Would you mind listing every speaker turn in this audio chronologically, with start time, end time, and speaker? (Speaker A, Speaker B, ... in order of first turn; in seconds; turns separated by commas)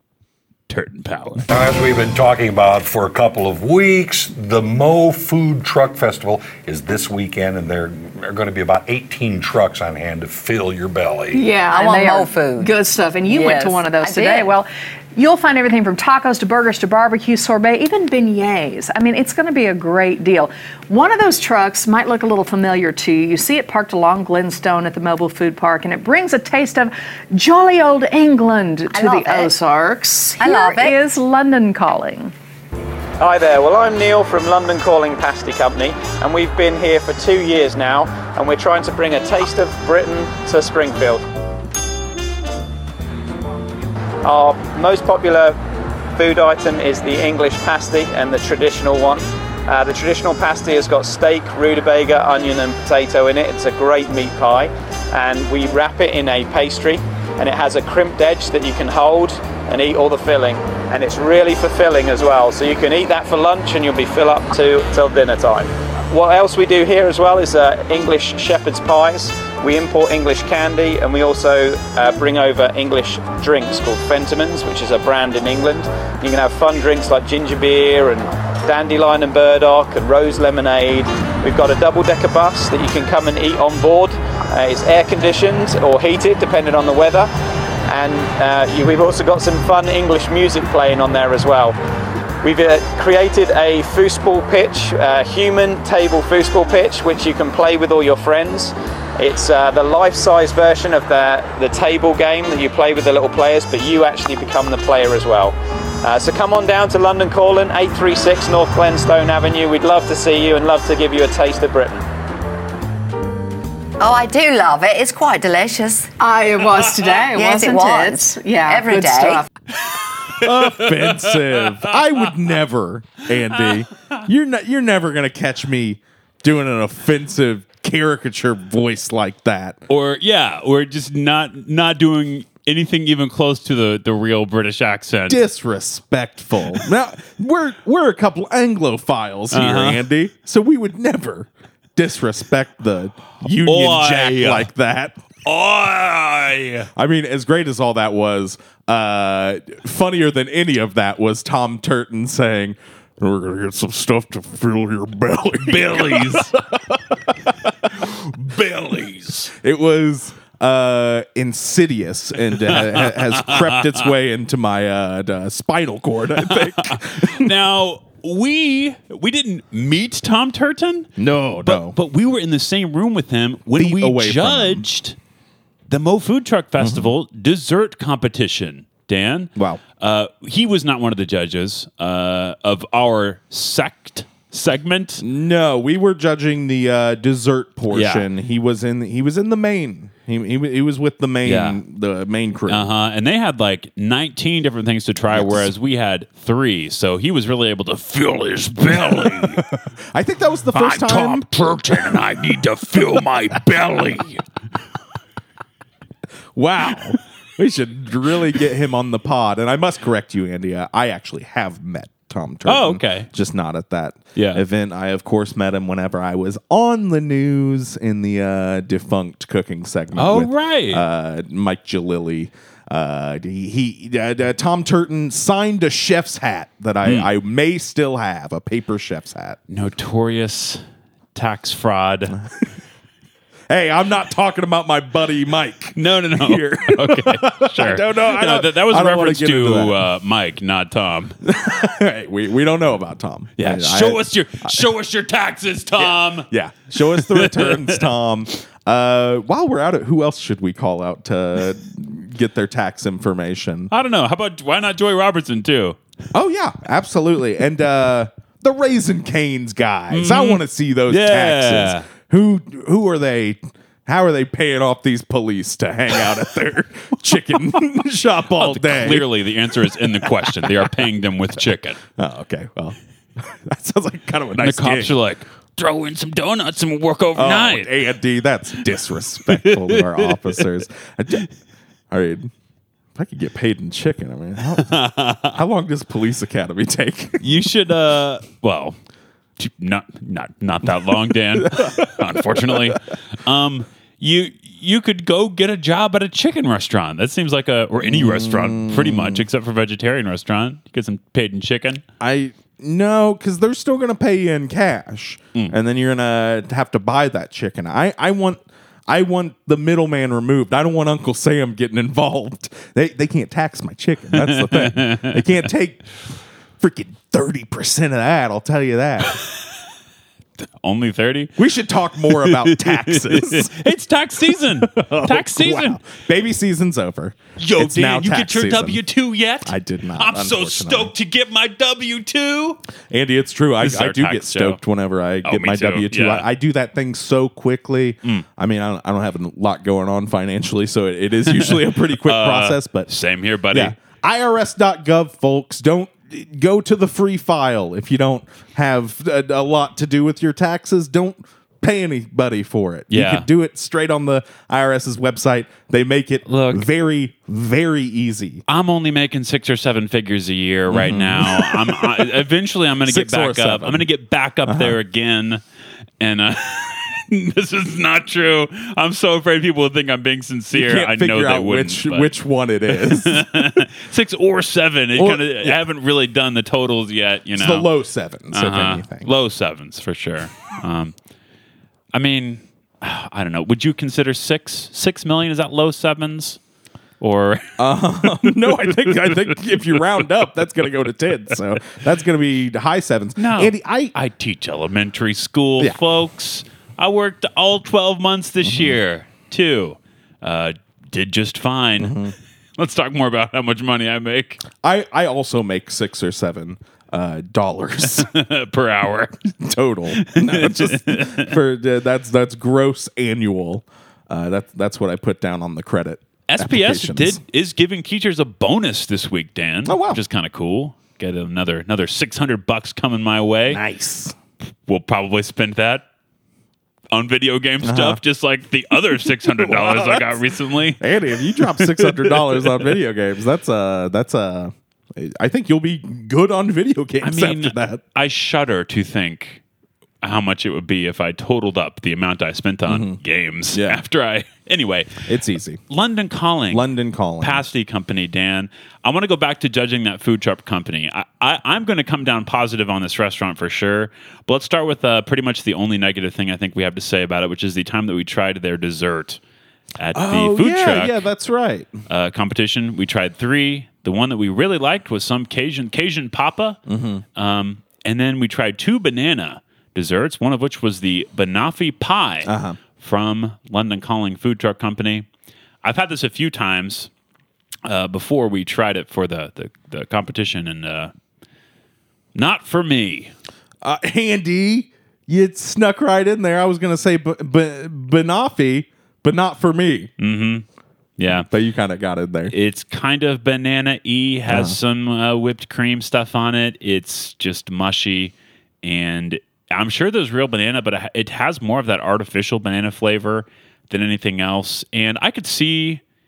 Speaker A: 0.7-1.4, Speaker B: 1.5-11.5, Speaker C: 11.3-32.3, Speaker D: 11.6-12.7, Speaker D: 13.3-14.5, Speaker D: 28.9-29.5, Speaker D: 30.4-31.0, Speaker E: 33.2-41.2, Speaker E: 44.2-45.6, Speaker E: 46.1-87.3, Speaker E: 87.9-91.8, Speaker E: 92.4-112.0, Speaker D: 114.0-116.1, Speaker C: 116.2-119.5, Speaker D: 116.7-119.5, Speaker A: 119.8-122.0, Speaker F: 120.4-129.8, Speaker A: 123.6-124.2, Speaker A: 129.9-135.4, Speaker F: 135.3-145.2, Speaker A: 139.5-140.0, Speaker A: 143.4-144.7, Speaker A: 145.4-146.9, Speaker F: 146.9-158.1, Speaker A: 155.6-156.6, Speaker A: 158.0-159.5, Speaker F: 159.5-167.5, Speaker A: 162.6-164.1, Speaker A: 166.4-175.2, Speaker F: 171.2-172.0, Speaker F: 173.8-174.8, Speaker A: 175.9-185.2, Speaker F: 176.8-177.1, Speaker F: 179.6-179.8, Speaker F: 185.2-192.9, Speaker A: 187.9-188.3, Speaker A: 191.4-191.8, Speaker A: 192.7-199.7, Speaker F: 195.3-195.7, Speaker F: 199.0-202.2, Speaker A: 200.7-204.4, Speaker F: 206.5-229.6, Speaker A: 212.6-213.3, Speaker A: 214.3-214.6, Speaker A: 220.2-221.0, Speaker A: 227.0-227.3, Speaker A: 229.7-230.8, Speaker A: 231.3-232.4, Speaker F: 232.3-232.6, Speaker F: 233.7-240.0, Speaker A: 235.9-241.4, Speaker F: 241.4-244.9, Speaker A: 243.6-248.0, Speaker F: 245.9-253.9, Speaker A: 253.9-256.0, Speaker F: 256.3-270.9, Speaker A: 260.1-262.1, Speaker A: 268.5-272.0, Speaker F: 272.2-275.2, Speaker A: 274.6-277.9, Speaker F: 277.3-281.4, Speaker A: 279.5-280.6, Speaker F: 282.1-282.5, Speaker F: 283.1-287.4, Speaker A: 284.6-285.5, Speaker A: 287.4-289.0, Speaker A: 289.6-302.0, Speaker F: 291.5-293.0, Speaker F: 298.0-299.4, Speaker F: 302.2-316.2, Speaker A: 314.3-315.6, Speaker F: 316.8-319.4, Speaker A: 320.8-321.6, Speaker F: 321.6-323.7, Speaker A: 322.3-326.0, Speaker F: 324.7-329.0, Speaker A: 327.6-332.8, Speaker F: 329.6-331.1, Speaker F: 333.1-343.1, Speaker A: 333.8-334.8, Speaker A: 335.4-336.5, Speaker A: 341.4-343.9, Speaker F: 343.7-358.6, Speaker A: 353.1-353.5, Speaker A: 356.4-356.9, Speaker A: 358.7-365.6, Speaker F: 360.9-362.3, Speaker F: 363.1-364.1, Speaker F: 364.6-365.0, Speaker A: 366.2-372.3, Speaker F: 370.7-373.8, Speaker A: 372.9-377.9, Speaker F: 375.1-375.8, Speaker F: 377.5-379.3, Speaker A: 378.5-381.1, Speaker A: 382.1-386.6, Speaker A: 387.2-390.0, Speaker F: 387.8-394.1, Speaker A: 393.4-404.6, Speaker F: 398.6-399.0, Speaker F: 402.0-402.3, Speaker F: 404.8-408.3, Speaker A: 408.1-409.5, Speaker F: 409.5-417.4, Speaker A: 410.2-411.6, Speaker A: 416.5-423.8, Speaker F: 419.8-420.2, Speaker F: 423.7-424.4, Speaker A: 424.9-426.1, Speaker A: 427.1-432.9, Speaker F: 427.8-428.2, Speaker F: 429.3-430.4, Speaker F: 431.0-438.0, Speaker A: 437.2-439.6, Speaker A: 440.2-445.2, Speaker F: 442.9-443.2, Speaker F: 443.7-444.0, Speaker F: 445.2-445.8, Speaker A: 445.9-446.8, Speaker F: 446.7-447.6, Speaker A: 447.4-459.4, Speaker A: 460.0-461.2, Speaker F: 460.1-461.9, Speaker A: 462.1-466.8, Speaker F: 466.9-467.2, Speaker A: 467.3-475.2, Speaker F: 472.4-472.8, Speaker A: 475.8-477.1, Speaker A: 477.8-481.1, Speaker A: 482.3-483.3, Speaker F: 483.8-490.1, Speaker A: 490.2-490.6, Speaker A: 491.2-491.5, Speaker F: 491.3-492.5, Speaker A: 492.5-506.0, Speaker F: 494.5-494.8